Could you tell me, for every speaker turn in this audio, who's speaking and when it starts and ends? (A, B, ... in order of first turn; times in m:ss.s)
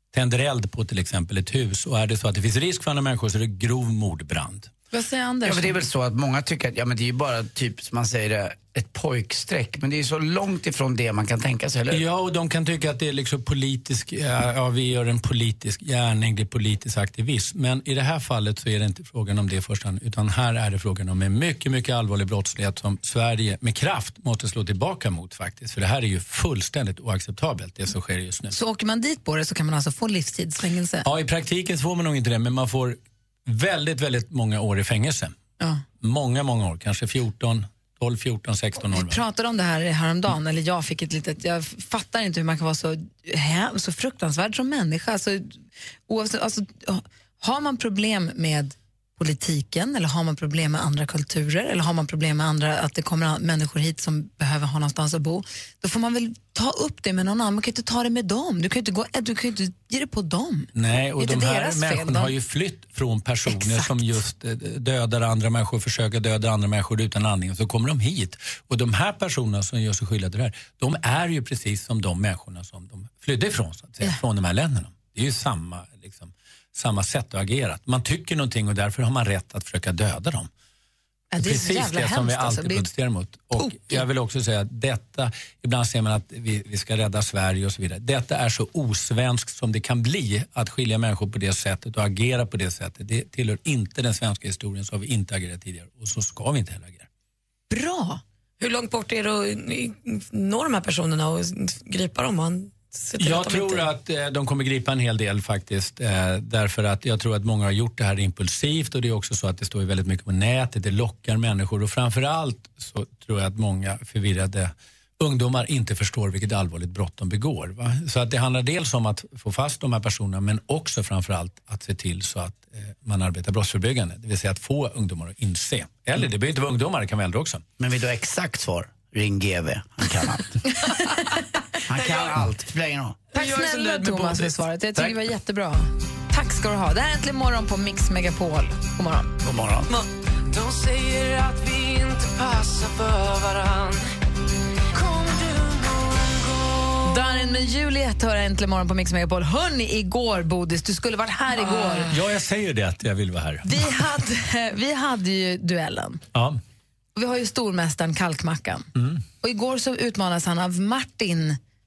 0:00.1-0:04.7 A
0:04.9-0:05.8 B
0:05.4-0:12.0 C
0:11.9-0:28.5 A
0:28.5-0:31.1 B
0:31.0-0:35.4 A
0:36.0-0:39.2 A
0:38.8-1:02.3 B
1:00.7-1:20.5 A
1:03.5-1:04.0 B
1:21.3-1:22.9 B
1:21.4-1:37.1 A
1:23.6-1:24.0 B
1:37.7-1:38.2 B
1:38.6-1:43.9 D
1:43.2-2:07.6 A
2:07.8-2:10.6 C
2:10.8-2:11.2 B
2:11.9-2:13.2 C
2:11.9-2:12.4 D
2:13.3-2:14.6 D
2:13.3-2:19.3 B
2:19.4-2:19.9 C
2:20.5-2:24.1 E
2:24.9-2:27.2 E
2:27.0-2:32.1 B
2:32.1-2:33.9 A
2:33.6-2:36.2 B
2:36.4-2:36.6 A
2:37.2-2:38.9 B
2:39.0-2:39.2 A
2:39.4-2:41.6 B